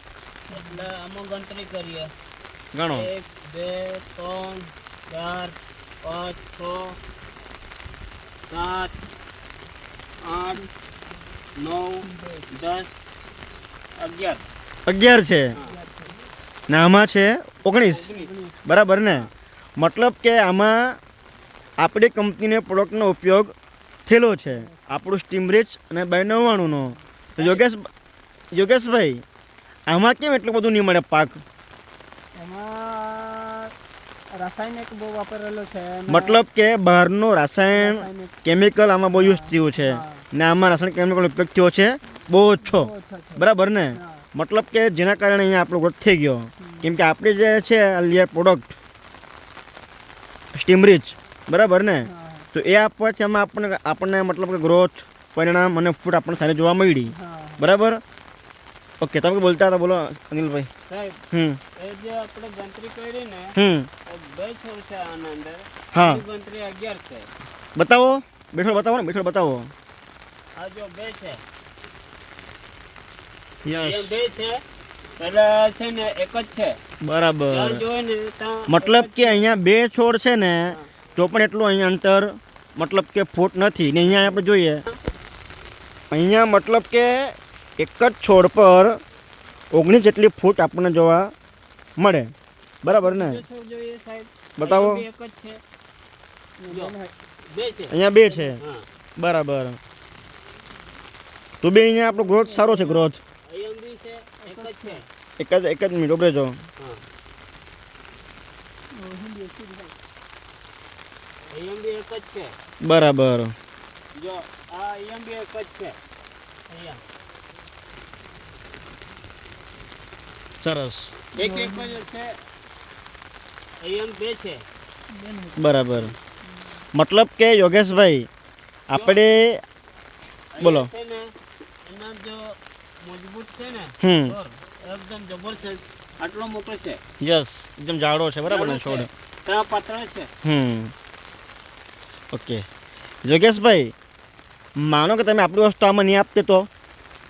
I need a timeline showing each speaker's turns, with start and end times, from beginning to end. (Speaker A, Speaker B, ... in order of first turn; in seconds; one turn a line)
Speaker A: 0.5-2.1
Speaker B: 0.5-0.9
Speaker C: 2.7-3.1
Speaker A: 2.9-7.0
Speaker A: 8.5-8.9
Speaker A: 10.2-10.7
Speaker A: 11.6-12.9
Speaker B: 12.0-12.5
Speaker A: 14.0-14.4
Speaker C: 14.9-15.5
Speaker B: 15.6-16.2
Speaker C: 16.7-18.1
Speaker A: 17.7-18.3
Speaker B: 18.2-18.6
Speaker C: 18.6-21.0
Speaker C: 21.8-23.5
Speaker C: 24.1-27.9
Speaker B: 24.5-24.8
Speaker B: 26.7-27.6
Speaker C: 28.5-29.2
Speaker C: 29.9-31.4
Speaker B: 32.4-33.7
Speaker B: 34.3-36.4
Speaker C: 36.1-48.8
Speaker B: 37.8-38.4
Speaker B: 39.1-40.3
Speaker B: 42.6-44.3
Speaker B: 46.6-47.0
Speaker C: 50.5-58.0
Speaker B: 52.0-52.5
Speaker B: 57.1-57.7
Speaker C: 59.0-60.7
Speaker A: 60.9-61.2
Speaker C: 61.3-61.6
Speaker A: 61.8-67.3
Speaker C: 63.6-63.9
Speaker C: 65.9-66.2
Speaker C: 67.8-69.7
Speaker A: 70.5-71.4
Speaker C: 73.7-74.1
Speaker A: 73.7-74.6
Speaker A: 75.2-76.8
Speaker C: 77.0-77.8
Speaker A: 77.5-79.5
Speaker C: 78.7-84.8
Speaker C: 86.1-89.0
Speaker C: 89.7-91.3
Speaker C: 92.0-93.4
Speaker A: 92.9-95.6
Speaker C: 94.6-95.0
Speaker B: 96.6-97.1
Speaker A: 96.7-97.0
Speaker A: 97.5-98.0
Speaker C: 97.9-98.6
Speaker B: 98.2-98.6
Speaker A: 98.6-98.9
Speaker C: 99.2-99.8
Speaker C: 101.6-103.2
Speaker B: 102.2-103.1
Speaker A: 103.5-105.1
Speaker B: 104.4-105.0
Speaker C: 105.4-106.6
Speaker B: 108.9-110.0
Speaker A: 111.5-112.5
Speaker C: 112.8-113.5
Speaker A: 114.2-116.0
Speaker A: 116.7-117.0
Speaker C: 120.6-121.2
Speaker B: 121.3-122.0
Speaker A: 121.4-122.3
Speaker A: 123.8-124.6
Speaker B: 125.1-125.6
Speaker C: 125.6-126.1
Speaker C: 126.9-128.3
Speaker C: 128.9-129.6
Speaker A: 128.9-129.2
Speaker A: 130.5-131.3
Speaker C: 130.6-130.9
Speaker A: 131.8-137.0
Speaker C: 134.0-134.4
Speaker C: 137.2-139.1
Speaker A: 138.5-140.3
Speaker C: 140.4-140.9
Speaker C: 142.3-142.7
Speaker C: 143.2-143.9
Speaker C: 144.8-146.7